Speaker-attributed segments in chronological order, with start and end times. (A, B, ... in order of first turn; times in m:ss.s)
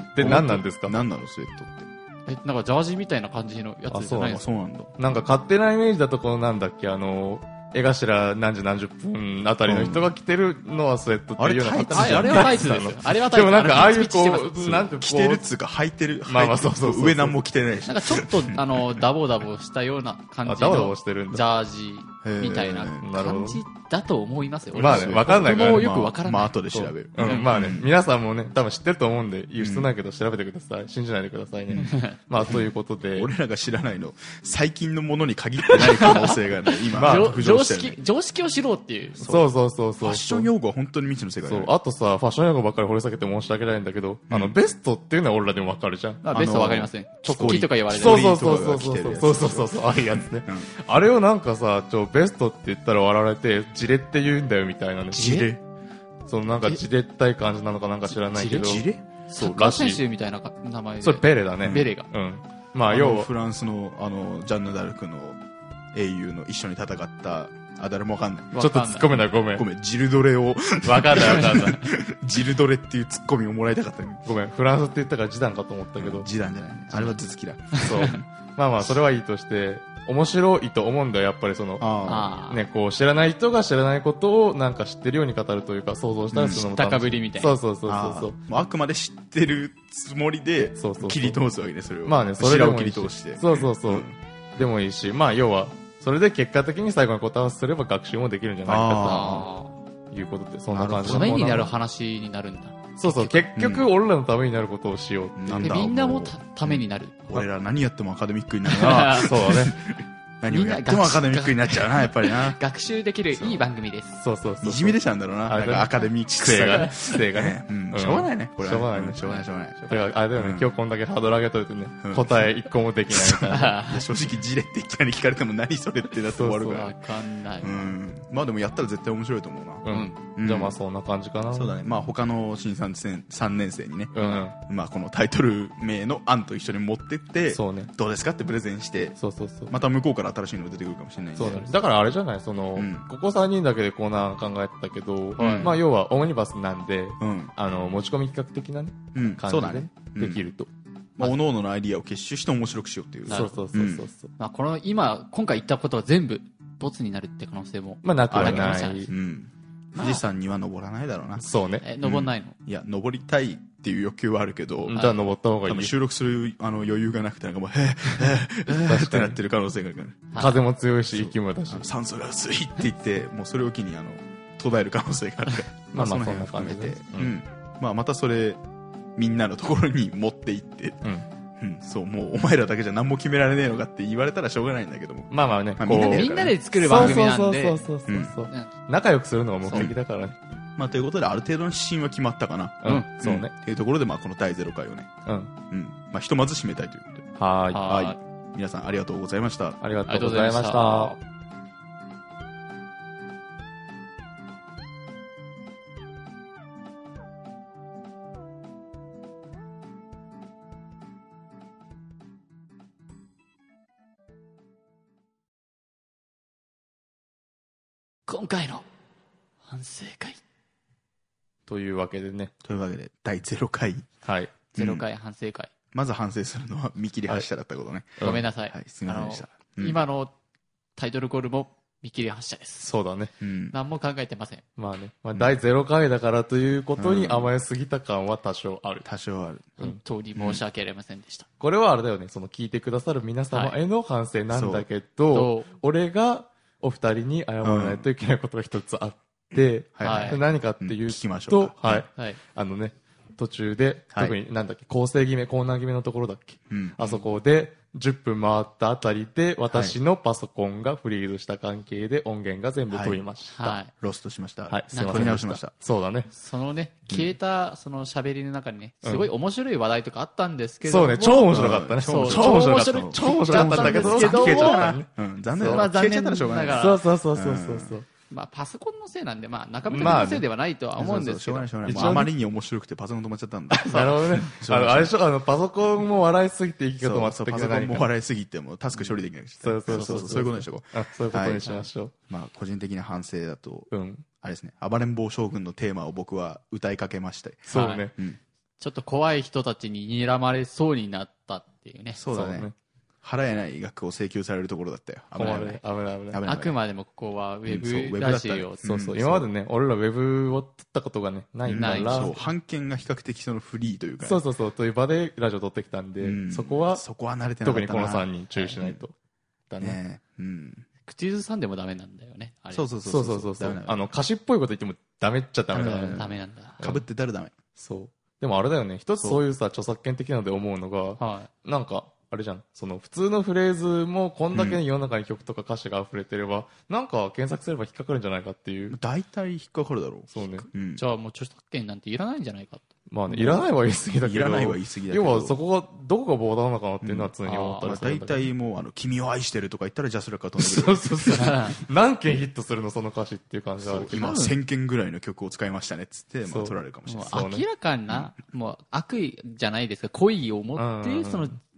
0:00.2-0:01.0 A
0:00.2-0:01.9 B
0:02.2-0:04.4 C
0:03.9-0:04.4 A
0:04.2-0:05.0 B
0:05.0-0:15.4 A
0:09.6-0:10.1 B
0:11.4-0:12.7 B
0:11.9-0:14.8 C
0:14.6-0:19.0 B
0:16.3-0:17.4 A
0:17.8-0:26.6 C
0:20.4-0:21.5 A
0:22.2-0:23.1 B
0:23.0-0:23.6 A
0:24.7-0:27.9 B
0:24.8-0:25.9 A
0:26.7-0:33.3 A
0:27.2-0:27.5 C
0:29.6-0:29.9 B
0:31.7-0:38.0 B
0:31.8-0:32.2 C
0:36.0-0:36.4 C
0:36.9-0:37.4 A
0:36.9-0:39.2 C
0:39.2-0:41.7 B
0:39.2-0:40.5 A
0:41.4-0:46.2 A
0:44.3-0:44.5 B
0:46.2-0:48.4 C
0:46.3-0:50.7 B
0:47.2-0:55.3 A
0:55.1-0:55.5 C
0:55.1-0:55.6 B
0:56.3-0:58.8 A
0:58.2-1:02.1 C
0:58.6-0:59.0 B
0:59.4-1:00.0 A
1:01.0-1:03.3 A
1:01.6-1:01.9 B
1:02.9-1:05.4 B
1:05.9-1:08.5 B
1:08.5-1:09.2 C
1:08.6-1:09.6 A
1:09.5-1:14.3 B
1:10.8-1:11.8 A
1:11.2-1:11.6 C
1:14.2-1:16.3 A
1:16.0-1:18.2 B
1:17.7-1:18.2 C
1:17.8-1:28.4 A
1:21.8-1:22.3 B
1:22.0-1:22.6 C
1:26.3-1:26.6 B
1:26.5-1:27.6 C
1:27.8-1:34.2 B
1:30.8-1:31.4 A
1:32.0-1:39.4 A
1:38.6-1:39.5 B
1:39.0-1:39.7 C
1:40.1-1:41.7 A
1:40.7-1:41.7 B
1:41.0-1:43.5 C
1:43.0-1:45.8 A
1:43.6-1:43.9 B
1:45.4-1:52.6 B
1:45.6-1:47.4 C
1:48.7-1:49.6 C
1:49.2-1:49.7 A
1:50.5-1:54.2 C
1:54.2-2:03.8 A
1:54.6-1:59.8 B
1:56.6-1:56.9 C
1:59.2-2:00.1 C
2:00.4-2:00.7 B
2:02.0-2:02.5 B
2:03.1-2:06.9 B
2:03.5-2:04.1 C
2:06.4-2:06.8 A
2:06.7-2:07.9 C
2:07.6-2:09.8 B
2:09.8-2:11.7 A
2:09.9-2:10.2 C
2:10.4-2:10.8 B
2:11.5-2:19.2 B
2:14.1-2:14.6 A
2:17.5-2:17.9 A
2:19.2-2:19.7 A
2:19.7-2:21.8 B
2:21.4-2:30.7 A
2:22.8-2:23.0 B
2:25.4-2:25.8 B
2:25.4-2:25.8 C
2:27.2-2:27.5 B
2:29.1-2:30.4 B
2:31.2-2:34.0 B
2:33.3-2:34.3 A
2:33.3-2:33.6 C
2:34.4-2:39.1 C
2:38.0-2:39.1 A
2:38.3-2:41.4 B
2:41.4-2:41.8 A
2:41.8-2:42.5 C
2:42.0-2:44.9 B
2:44.9-2:45.9 A
2:44.9-2:45.2 C
2:45.6-2:50.4 B
2:48.7-2:49.4 A
2:50.3-2:50.6 C
2:50.4-2:51.9 A
2:51.1-2:58.6 B
2:55.9-2:57.3 A
2:59.2-3:01.0 B
3:01.6-3:07.2 B
3:05.3-3:10.4 A
3:05.9-3:07.9 C
3:08.1-3:08.3 B
3:09.7-3:10.0 B
3:10.8-3:15.1 B
3:12.8-3:13.5 A
3:15.2-3:15.5 A
3:15.7-3:19.8 B
3:17.4-3:18.1 A
3:17.7-3:18.2 C
3:19.8-3:21.1 A
3:20.1-3:21.2 C
3:38.3-3:38.8 C
3:39.6-3:40.4 C
3:41.7-3:42.5 A
3:42.6-3:44.1 B
3:44.2-3:44.5 A
3:44.7-3:45.0 B
3:44.8-3:45.7 C
3:45.9-3:50.0 B
3:48.2-3:50.3 C
3:51.0-3:52.9 C
3:52.8-3:53.3 A
3:53.4-3:53.8 B
3:53.7-3:54.6 C
3:54.8-3:59.0 A
3:57.0-3:57.5 B
3:59.0-3:59.8 B
3:59.8-4:01.5 C
4:00.4-4:00.6 B
4:01.6-4:23.8 A
4:03.5-4:03.8 C
4:04.5-4:04.8 B
4:05.3-4:05.7 C
4:07.6-4:08.1 B
4:09.5-4:12.1 B
4:10.0-4:10.4 C
4:16.7-4:17.2 B
4:19.7-4:20.0 B
4:22.9-4:23.2 B
4:23.5-4:23.9 C
4:24.0-4:25.7 B
4:24.7-4:26.3 A
4:24.9-4:25.4 C
4:26.3-4:35.0 C
4:29.0-4:29.3 A
4:30.8-4:35.8 A
4:31.5-4:38.0 B
4:35.6-4:37.0 C
4:36.7-4:38.1 A
4:38.3-4:42.2 C
4:39.9-4:40.4 A
4:41.0-4:45.1 B
4:41.8-4:42.3 A
4:43.7-4:44.4 C
4:43.8-4:48.1 A
4:47.0-4:51.7 B
4:49.6-4:52.1 A
4:49.9-4:50.4 C
4:52.3-4:53.9 B
4:53.9-4:54.2 A
4:54.4-4:58.4 B
4:57.7-4:58.1 A
4:57.7-4:58.1 C
4:58.8-5:02.2 C
5:02.1-5:02.7 B
5:02.3-5:02.7 A
5:03.2-5:05.8 B
5:05.3-5:06.4 A
5:06.3-5:06.8 B
5:06.4-5:08.8 C
5:07.7-5:09.5 B
5:08.8-5:12.3 A
5:11.6-5:14.4 B
5:11.7-5:12.5 C
5:14.2-5:17.0 A
5:16.2-5:19.0 B
5:17.6-5:19.1 A
5:19.7-5:20.0 A
5:19.8-5:20.8 B
5:21.1-5:22.9 C
5:22.7-5:24.1 B
5:23.0-5:26.3 A
5:25.7-5:27.5 B
5:26.2-5:26.8 C
5:27.8-5:39.0 A
5:31.2-5:31.5 C
5:34.5-5:34.8 B
5:38.9-5:41.0 B
5:40.3-5:40.7 A
5:41.0-5:42.9 C
5:43.1-5:48.4 A
5:43.3-5:43.7 B
5:44.2-5:45.6 B
5:47.0-5:51.5 B
5:47.4-5:47.9 C
5:50.6-5:54.5 A
5:51.3-5:51.7 C
5:53.8-5:57.4 B
5:56.5-5:56.7 A
5:57.1-6:01.6 C
5:57.3-5:57.6 A
6:00.8-6:01.5 A